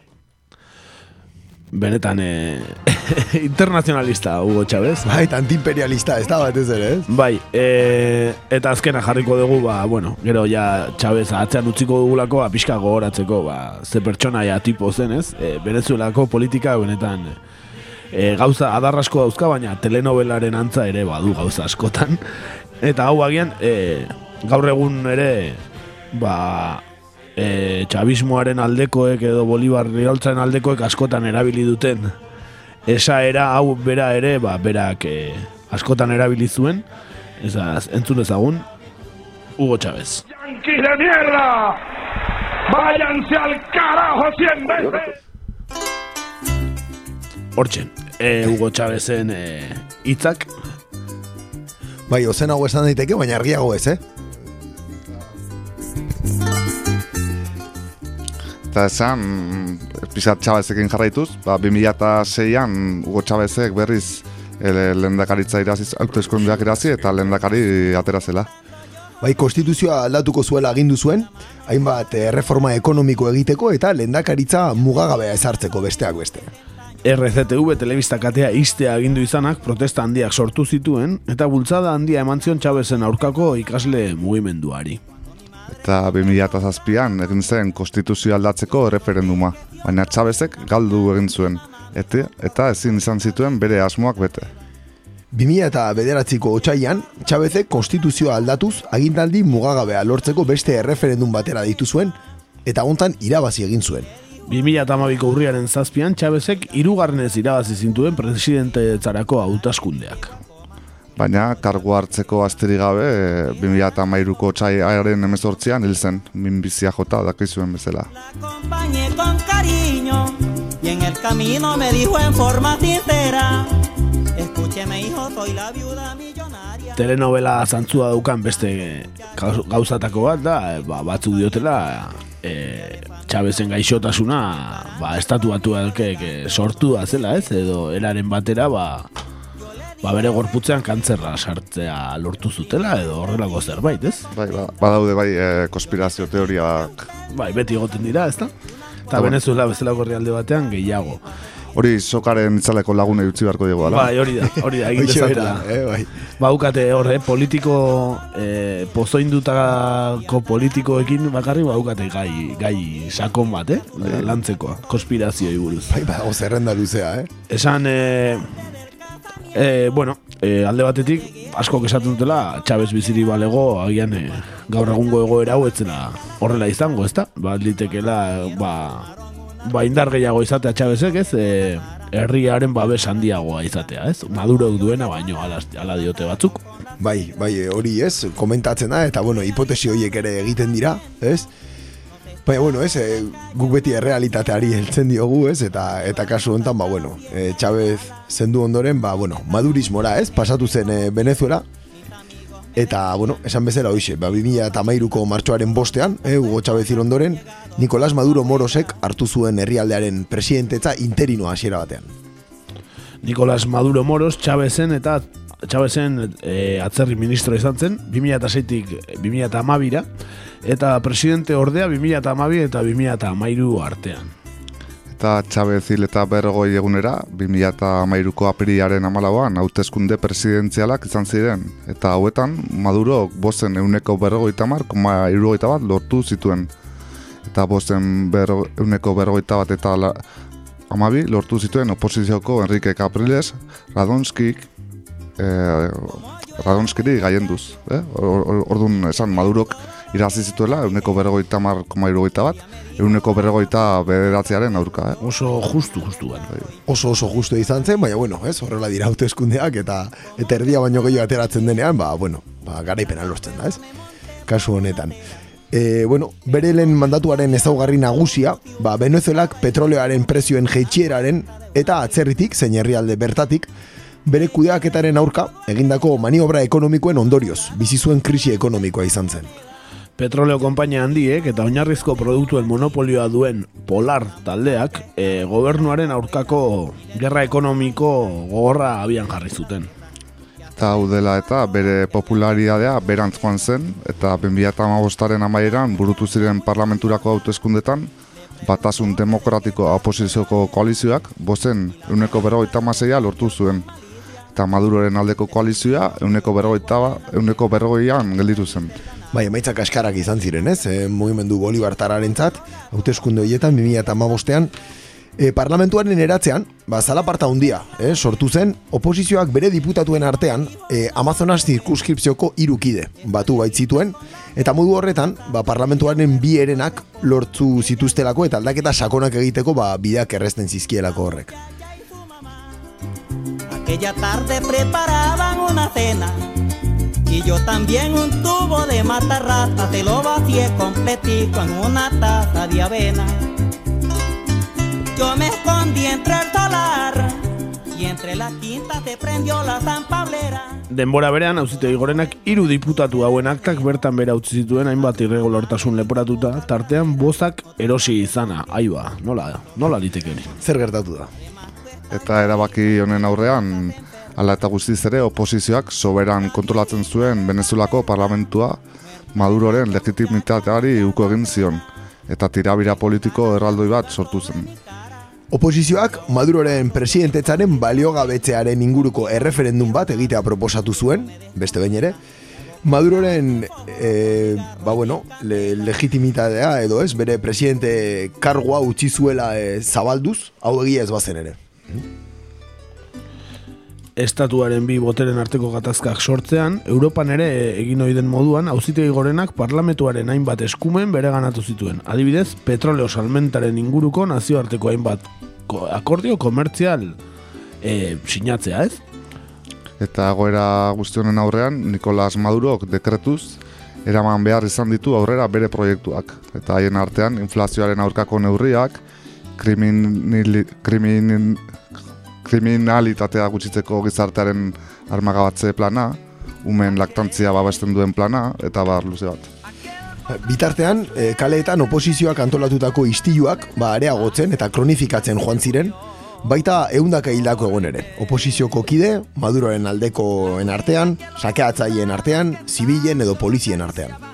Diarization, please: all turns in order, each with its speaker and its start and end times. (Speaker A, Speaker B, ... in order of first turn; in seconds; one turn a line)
Speaker A: 1.7-5.1
Speaker B: 5.0-7.1
Speaker A: 7.1-17.4
Speaker A: 18.1-22.2
Speaker A: 22.8-25.6
Speaker A: 26.1-26.8
Speaker A: 27.4-32.1
Speaker A: 32.9-36.8
Speaker A: 37.4-38.7
Speaker A: 39.6-40.2
Speaker C: 40.3-41.8
Speaker C: 42.7-45.1
Speaker A: 47.6-50.5
Speaker B: 52.1-54.0
Speaker D: 58.7-68.5
Speaker B: 69.2-76.5
Speaker A: 77.0-85.0
Speaker D: 85.7-94.5
Speaker B: 95.3-104.1
Speaker A: 104.5-110.3
Speaker D: 111.2-118.1
Speaker E: 118.3-123.7
Speaker E: 124.4-126.8
Speaker A: 127.0-139.1
Speaker A: 140.0-144.2
Speaker D: 144.3-147.1
Speaker A: 147.3-148.5
Speaker A: 149.1-151.2
Speaker D: 151.8-154.1
Speaker A: 153.9-155.7
Speaker B: 154.5-156.1
Speaker A: 156.4-165.9
Speaker B: 165.9-167.3
Speaker A: 167.5-168.5
Speaker A: 169.6-179.1
Speaker A: 179.7-186.6
Speaker B: 187.0-191.5
Speaker B: 192.5-201.7
Speaker B: 202.8-212.1
Speaker A: 213.2-220.1
Speaker A: 220.6-224.3
Speaker D: 225.1-236.7
Speaker D: 237.5-240.2
Speaker D: 240.9-244.7
Speaker D: 245.4-255.2
Speaker A: 255.2-256.5
Speaker B: 256.9-263.8
Speaker B: 264.5-265.2
Speaker B: 265.7-273.7
Speaker B: 274.2-279.5
Speaker A: 280.2-289.9
Speaker D: 290.8-298.1
Speaker D: 298.6-303.9
Speaker D: 304.6-308.9
Speaker B: 309.3-314.7
Speaker B: 315.4-331.6
Speaker E: 333.7-336.5
Speaker E: 337.3-343.5
Speaker E: 345.1-350.8
Speaker A: 350.9-360.5
Speaker B: 360.6-361.3
Speaker D: 362.1-368.8
Speaker D: 369.4-374.7
Speaker B: 375.5-382.2
Speaker B: 382.8-392.0
Speaker A: 394.2-407.2
Speaker A: 407.8-409.0
Speaker D: 410.0-419.0
Speaker D: 419.6-421.6
Speaker D: 422.4-429.5
Speaker B: 430.3-444.2